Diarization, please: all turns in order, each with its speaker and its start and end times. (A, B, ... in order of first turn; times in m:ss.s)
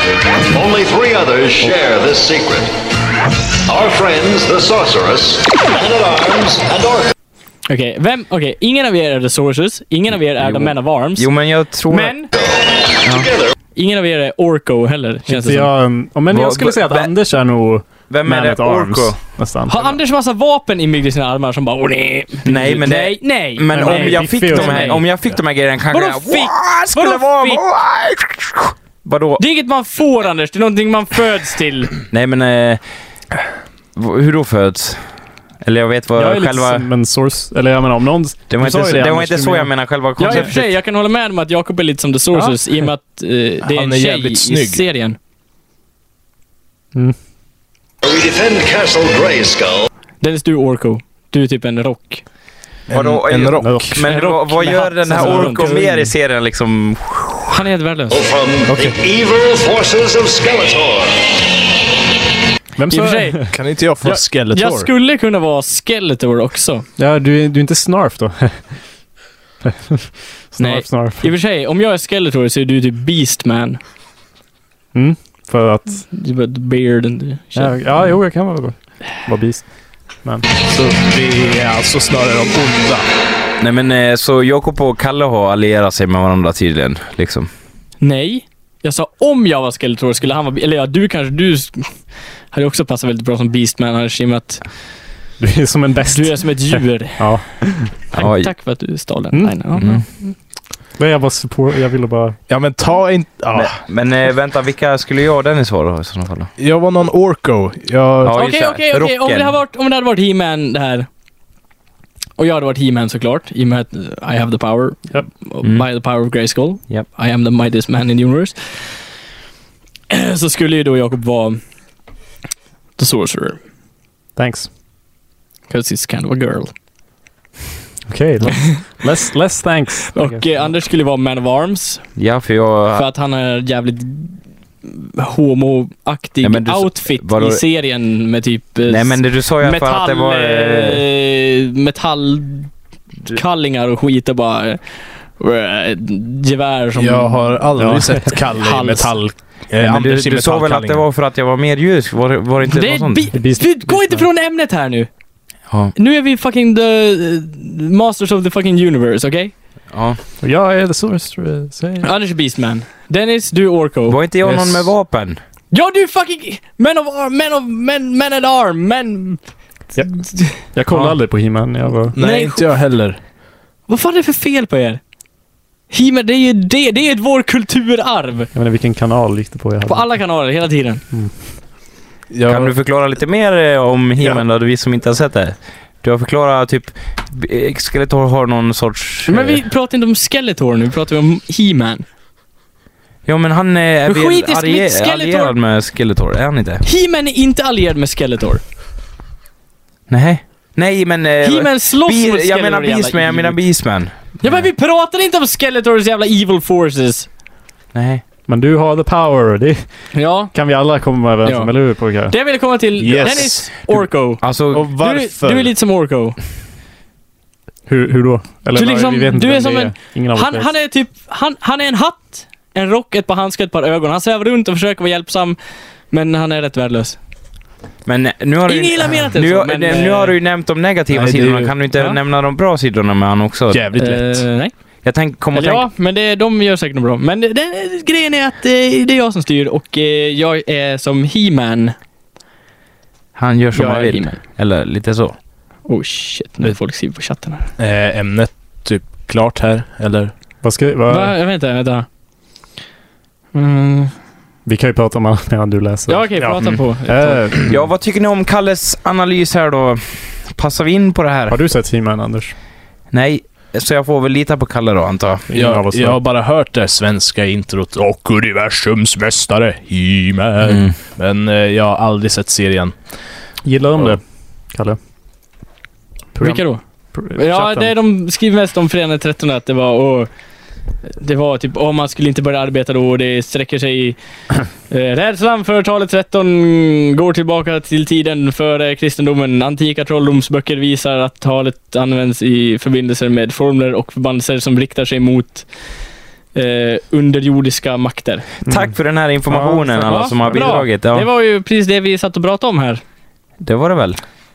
0:00.5-0:02.7 A
0:03.6-0:07.1 A
0:07.7-0:11.3 B
0:10.4-0:12.2 C
0:11.9-0:12.3 B
0:13.0-0:13.3 C
0:13.8-0:15.7 B
0:15.3-0:20.0 D
0:16.3-0:17.1 C
0:18.1-0:19.2 C
0:19.7-0:25.0 B
0:22.4-0:29.4 C
0:23.7-0:25.0 D
0:25.9-0:27.6 B
0:29.4-0:31.9 B
0:32.1-0:32.8 C
0:34.0-0:35.1 C
0:35.6-0:36.9 C
0:36.1-0:40.6 D
0:38.5-0:40.7 C
0:40.2-0:45.2 B
0:42.3-0:42.6 D
0:43.6-0:44.8 E
0:48.0-0:49.9 A
0:50.2-0:52.2 B
0:52.9-0:53.9 E
0:52.9-0:57.6 C
0:53.6-0:54.0 D
0:54.0-0:55.8 B
0:55.1-0:56.1 D
0:57.5-0:58.2 B
0:58.1-1:01.2 A
1:02.8-1:03.6 D
1:02.9-1:03.5 B
1:03.5-1:04.9 E
1:04.0-1:06.8 B
1:07.0-1:08.7 D
1:09.6-1:11.3 D
1:10.6-1:13.8 B
1:14.9-1:16.1 D
1:16.1-1:18.1 B
1:17.6-1:20.4 D
1:20.7-1:23.0 E
1:23.6-1:27.5 C
1:28.0-1:34.7 B
1:35.4-1:38.0 D
1:36.1-1:40.4 B
1:38.2-1:38.5 C
1:39.3-1:40.0 D
1:39.8-1:40.0 C
1:41.0-1:42.4 D
1:42.5-1:43.8 E
1:43.5-1:46.5 C
1:46.6-1:48.4 E
1:48.2-1:49.5 C
1:48.3-1:51.1 B
1:52.4-1:59.0 B
2:00.1-2:01.6 B
2:03.0-2:03.6 B
2:04.4-2:04.7 D
2:05.7-2:06.7 B
2:08.1-2:10.7 D
2:10.1-2:12.1 B
2:12.2-2:13.1 C
2:12.9-2:22.7 B
2:16.4-2:17.6 C
2:18.9-2:21.0 C
2:23.3-2:27.6 B
2:27.0-2:31.0 E
2:27.8-2:28.4 D
2:28.5-2:29.2 B
2:29.8-2:33.3 C
2:32.6-2:35.1 B
2:33.3-2:34.3 D
2:36.0-2:39.5 B
2:39.9-2:40.2 C
2:40.4-2:42.1 D
2:42.0-2:44.9 B
2:44.1-2:45.4 C
2:45.7-2:49.5 B
2:50.0-2:52.2 D
2:50.0-2:50.6 B
2:52.1-2:53.2 E
2:52.2-2:52.8 B
2:53.9-2:55.0 B
2:55.9-2:58.5 B
2:58.5-3:00.2 D
2:59.9-3:01.0 B
3:02.3-3:02.7 E
3:02.5-3:09.6 C
3:09.3-3:12.0 B
3:13.2-3:16.8 C
3:14.1-3:15.6 B
3:16.8-3:18.6 B
3:20.1-3:24.6 C
3:21.4-3:23.6 B
3:24.4-3:27.3 B
3:27.9-3:28.2 C
3:28.5-3:29.9 D
3:30.1-3:30.5 B
3:30.5-3:32.4 D
3:31.4-3:36.4 B
3:33.0-3:34.1 E
3:34.4-3:34.9 C
3:34.7-3:35.7 E
3:37.9-3:40.7 D
3:38.8-3:45.6 B
3:46.1-3:47.2 B
3:48.0-3:53.8 C
3:48.7-3:50.4 B
3:51.1-3:51.7 E
3:53.7-3:54.5 E
3:54.0-3:54.7 B
3:55.0-3:55.9 C
3:55.5-4:02.0 B
4:03.4-4:05.4 C
4:03.7-4:04.4 B
4:05.9-4:07.7 B
4:07.8-4:10.3 E
4:10.6-4:11.3 D
4:11.1-4:12.0 B
4:13.5-4:14.1 B
4:14.7-4:17.8 D
4:16.1-4:17.4 B
4:17.7-4:21.6 C
4:21.5-4:22.5 D
4:23.1-4:25.5 C
4:25.5-4:26.2 D
4:25.5-4:33.0 E
4:30.7-4:31.0 C
4:33.6-4:35.0 D
4:36.3-4:37.9 D
4:36.4-4:36.8 B
4:37.3-4:40.3 B
4:41.0-4:44.2 B
4:44.9-4:55.7 B
4:56.5-4:58.4 B
4:58.7-5:00.8 D
4:58.7-5:01.3 C
5:00.1-5:03.0 B
5:03.6-5:04.2 C